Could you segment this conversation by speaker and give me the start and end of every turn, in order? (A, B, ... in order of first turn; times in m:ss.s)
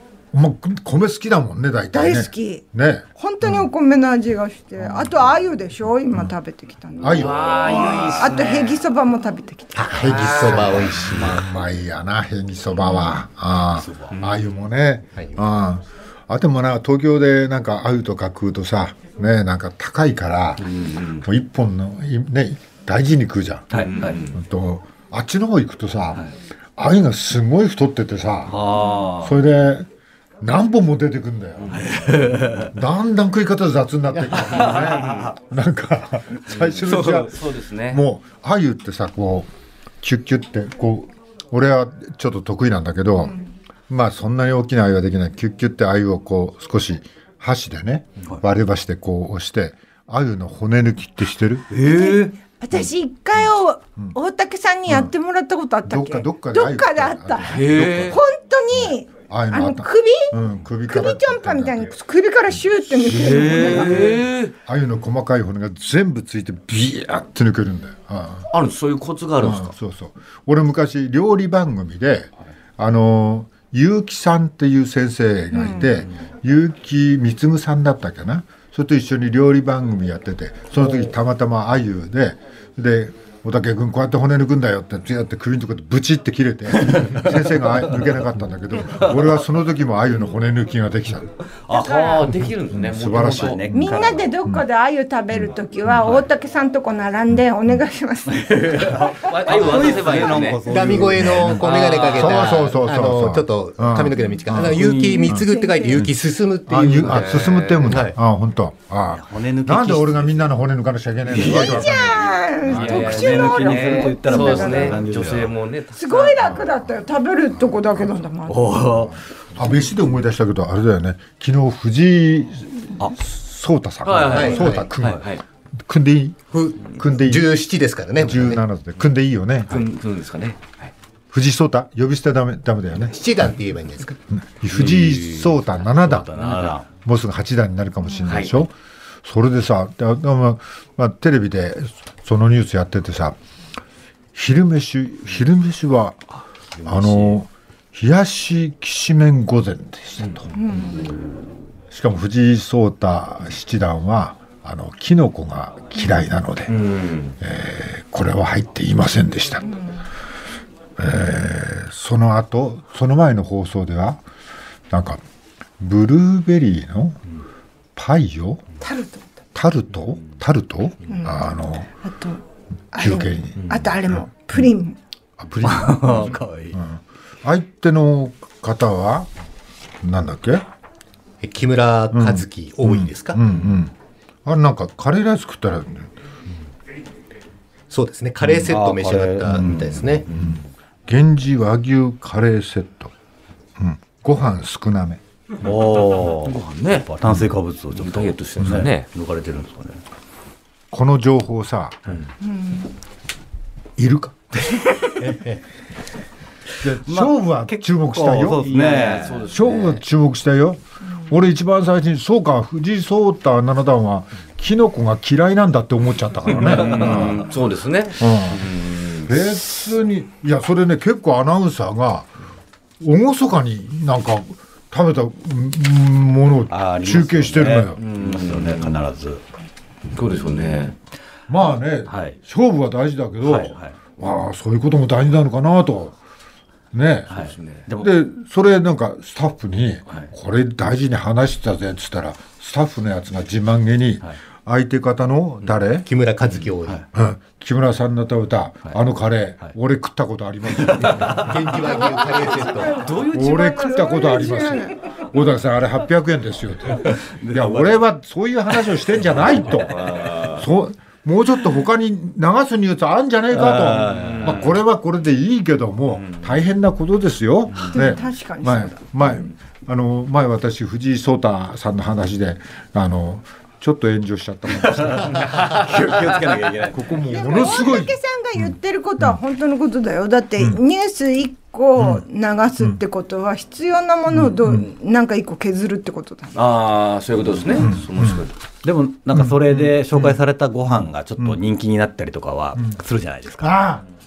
0:00.3-0:03.7 A
0:01.9-0:02.6 B
0:03.2-0:07.5 B
0:04.8-0:05.2 A
0:07.0-0:08.0 A
0:07.0-0:08.8 C
0:07.6-0:08.4 D
0:08.1-0:09.9 B
0:09.7-0:11.4 E
0:09.9-0:29.9 A
0:10.0-0:10.9 C
0:13.8-0:14.1 D
0:20.7-0:21.2 C
0:23.7-0:24.2 D
0:23.7-0:24.4 C
0:28.5-0:29.4 D
0:30.4-0:39.5 A
0:31.6-0:31.9 C
0:31.7-0:32.7 D
0:34.6-0:35.3 D
0:34.9-0:35.3 C
0:36.6-0:38.0 C
0:40.0-0:43.4 A
0:43.9-0:51.7 A
0:51.7-0:52.3 D
0:51.8-1:04.1 B
0:55.8-0:58.2 A
0:57.4-0:58.2 C
0:58.7-1:02.0 A
1:02.6-1:04.1 A
1:03.1-1:04.5 C
1:04.6-1:08.5 A
1:08.5-1:09.7 C
1:09.4-1:31.3 A
1:15.5-1:15.9 B
1:31.7-1:32.5 D
1:31.7-1:33.6 C
1:32.7-1:34.6 A
1:33.0-1:34.3 D
1:33.7-1:39.2 B
1:38.3-1:42.5 D
1:39.2-1:40.6 C
1:40.6-1:47.5 E
1:41.4-1:42.7 C
1:42.2-1:45.4 A
1:44.6-1:45.2 D
1:45.0-1:46.1 B
1:46.7-1:53.2 A
1:47.0-1:48.0 C
1:49.1-1:50.5 D
1:51.3-1:51.9 D
1:51.4-1:55.0 B
1:52.7-1:56.6 C
1:52.7-1:55.5 D
1:55.9-1:58.8 B
1:56.4-1:56.8 A
1:58.5-1:59.2 D
1:58.8-2:07.6 A
2:04.0-2:05.4 C
2:04.3-2:04.9 E
2:06.5-2:08.6 E
2:08.2-2:09.8 A
2:09.7-2:10.9 C
2:11.3-2:13.2 A
2:13.0-2:14.2 E
2:14.3-2:18.7 A
2:14.7-2:16.9 D
2:16.4-2:16.7 C
2:18.2-2:18.6 C
2:19.2-2:23.4 A
2:24.3-2:26.2 A
2:26.8-2:27.4 D
2:26.8-2:30.5 A
2:30.6-2:31.1 B
2:31.9-2:36.8 A
2:36.7-2:37.4 C
2:37.4-2:39.8 A
2:39.6-2:40.0 B
2:41.0-2:44.2 A
2:44.9-2:45.2 A
2:45.8-2:47.2 A
2:48.0-2:48.6 A
2:48.8-2:49.3 B
2:49.5-2:51.9 A
2:51.1-2:51.5 B
2:52.0-2:52.4 B
2:52.9-2:55.0 B
2:53.0-2:54.2 A
2:55.4-2:59.3 A
2:55.6-2:56.8 D
3:00.0-3:00.6 A
3:01.4-3:03.4 E
3:02.1-3:03.9 A
3:04.4-3:06.1 A
3:07.9-3:10.3 E
3:08.6-3:10.5 D
3:10.3-3:13.1 A
3:13.8-3:15.2 A
3:15.6-3:20.0 D
3:16.4-3:17.1 C
3:17.9-3:19.1 C
3:20.9-3:22.2 A
3:22.4-3:22.9 B
3:24.0-3:25.4 A
3:25.2-3:25.5 D
3:26.8-3:28.7 A
3:27.0-3:29.5 D
3:28.6-3:30.0 C
3:29.5-3:37.5 A
3:36.5-3:39.3 C
3:36.7-3:37.3 D
3:38.2-3:38.7 A
3:39.2-3:42.3 A
3:43.0-3:48.0 A
3:46.7-3:49.4 D
3:48.0-3:48.9 C
3:50.1-3:51.0 C
3:51.5-3:56.1 A
3:52.1-3:52.4 D
3:53.4-3:54.0 D
3:56.9-3:57.3 A
3:57.3-3:58.1 D
3:57.3-3:57.8 C
3:58.0-4:06.1 A
4:06.0-4:07.0 E
4:07.1-4:11.6 A
4:10.8-4:11.5 D
4:11.2-4:13.0 E
4:12.2-4:15.0 B
4:12.9-4:13.7 C
4:13.3-4:35.5 A
4:17.0-4:18.0 D
4:19.8-4:20.6 C
4:23.5-4:24.6 D
4:24.1-4:24.8 C
4:26.2-4:26.5 C
4:27.9-4:29.0 B
4:34.8-4:37.6 D
4:36.9-4:38.7 A
4:37.3-4:46.6 B
4:42.0-4:42.2 A
4:44.3-4:44.8 A
4:46.5-4:48.5 C
4:47.8-4:48.4 A
4:48.8-4:53.8 D
4:49.3-4:50.4 A
4:53.6-4:54.0 A